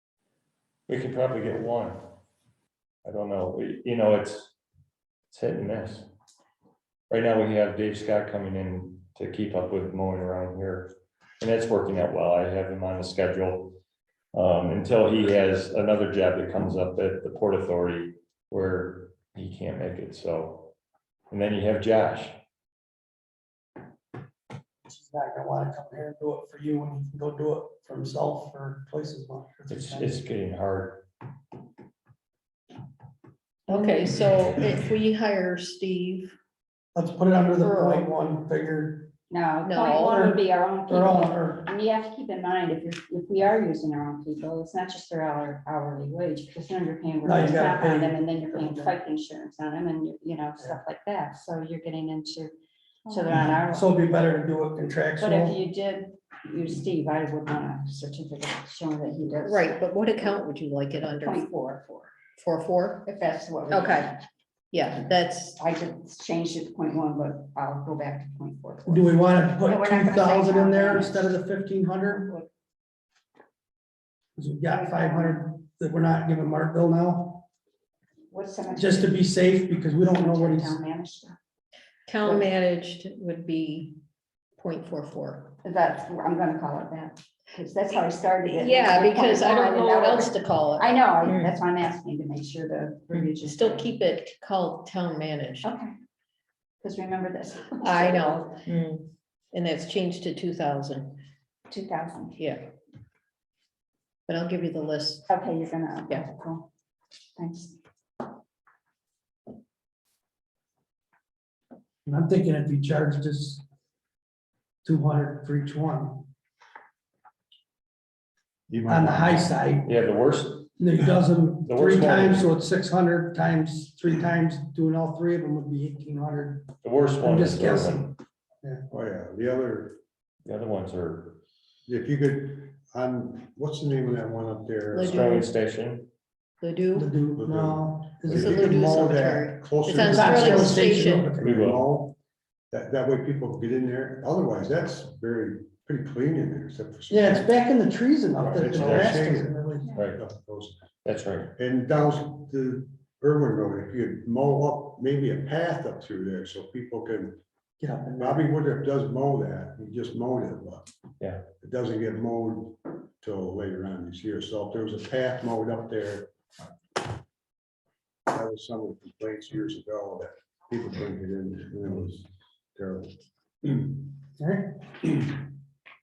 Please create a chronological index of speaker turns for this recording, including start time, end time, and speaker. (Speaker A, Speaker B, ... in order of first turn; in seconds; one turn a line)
Speaker A: 0.9-2.0
Speaker A: 3.0-4.5
Speaker A: 5.3-6.1
Speaker A: 7.1-13.8
Speaker A: 14.3-20.7
Speaker A: 21.3-22.4
Speaker B: 24.9-30.2
Speaker A: 29.7-31.0
Speaker C: 33.7-36.3
Speaker B: 33.7-34.1
Speaker B: 36.9-39.1
Speaker C: 37.6-38.1
Speaker D: 39.3-52.5
Speaker C: 39.6-40.1
Speaker B: 40.1-41.7
Speaker B: 47.2-48.9
Speaker D: 53.0-53.9
Speaker B: 53.3-55.6
Speaker D: 55.2-59.7
Speaker C: 59.4-61.5
Speaker D: 61.2-62.1
Speaker C: 62.4-63.1
Speaker D: 63.0-64.2
Speaker C: 63.7-64.1
Speaker C: 64.7-65.6
Speaker D: 65.6-71.3
Speaker B: 68.9-72.3
Speaker D: 72.1-72.5
Speaker B: 74.4-77.5
Speaker D: 74.7-75.4
Speaker D: 78.3-79.2
Speaker B: 78.7-80.8
Speaker D: 80.0-81.4
Speaker C: 82.1-83.9
Speaker D: 82.2-82.5
Speaker C: 84.6-85.5
Speaker D: 85.6-93.9
Speaker C: 88.5-91.5
Speaker C: 93.1-95.7
Speaker D: 95.6-95.9
Speaker D: 96.8-98.6
Speaker C: 97.8-101.2
Speaker D: 101.7-102.4
Speaker C: 102.4-102.7
Speaker C: 104.3-105.3
Speaker D: 105.3-106.7
Speaker D: 107.4-107.8
Speaker B: 112.0-113.6
Speaker B: 114.8-116.2
Speaker A: 118.7-122.5
Speaker B: 118.9-119.9
Speaker B: 120.8-128.8
Speaker A: 126.8-128.0
Speaker E: 128.9-130.0
Speaker A: 130.4-131.4
Speaker E: 131.8-135.4
Speaker C: 134.9-135.5
Speaker A: 135.0-136.1
Speaker C: 136.6-137.1
Speaker B: 136.9-138.9
Speaker E: 137.4-142.1
Speaker C: 138.3-141.3
Speaker B: 139.9-141.6
Speaker A: 141.4-141.8
Speaker E: 142.7-147.4
Speaker B: 147.1-149.9
Speaker E: 148.4-150.8
Speaker A: 148.6-149.2
Speaker A: 149.9-150.2
Speaker A: 151.0-151.5
Speaker E: 151.5-157.4
Speaker B: 157.8-158.5
Speaker E: 158.2-160.8
Speaker E: 161.6-166.3
Speaker E: 168.3-173.8
Speaker B: 174.4-174.9